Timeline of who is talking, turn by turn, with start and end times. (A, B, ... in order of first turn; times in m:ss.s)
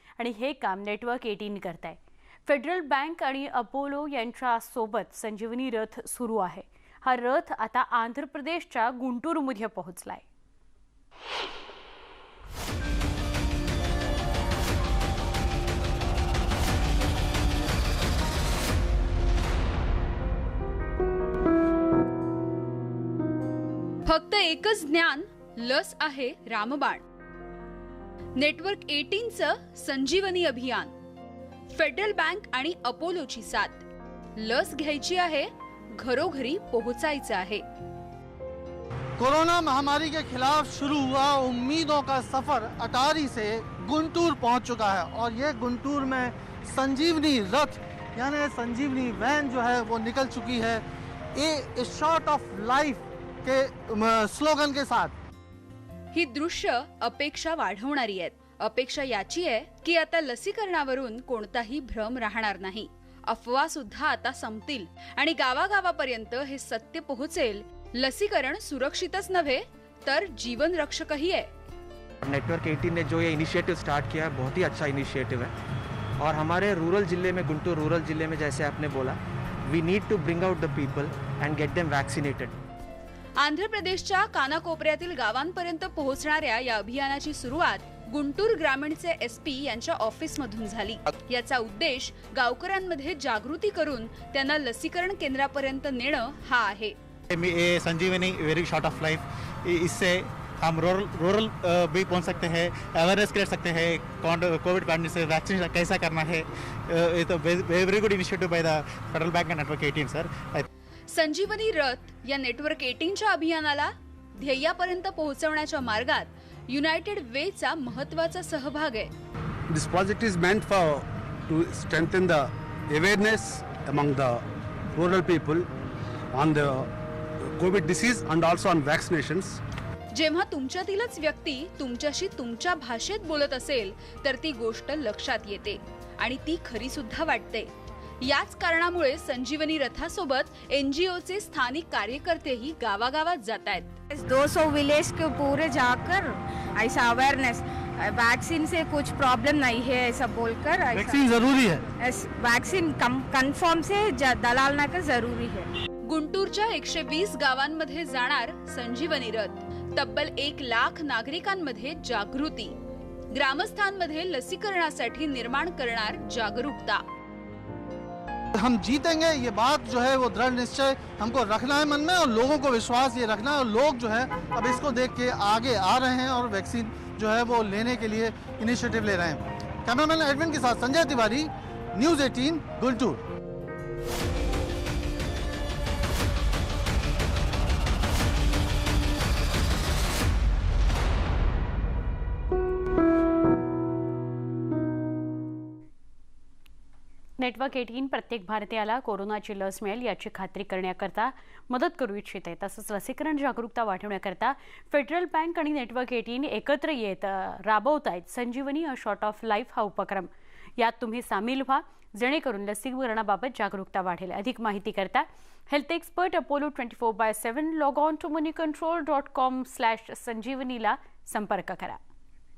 0:00.2-0:10.2 A
0:24.1-0:27.0 B
0:28.4-0:30.9 B
0:31.7-0:33.8 B
0:34.4-0:37.6 B
0:39.2-0:50.8 C
0:51.4-0:55.1 C
0:56.1-1:11.5 B
1:12.2-1:15.5 D
1:16.2-1:22.5 D
1:23.4-1:37.0 B
1:37.3-1:50.6 E
1:51.1-1:59.1 B
1:59.7-2:05.7 F
2:06.3-2:06.9 F
2:07.5-2:09.6 F
2:10.2-2:17.7 B
2:18.2-2:23.9 B
2:24.1-2:31.2 G
2:30.9-2:31.9 C
2:32.0-2:35.7 G
2:36.1-2:42.8 B
2:43.4-2:47.0 B
2:48.6-3:03.2 C
3:17.4-3:42.0 A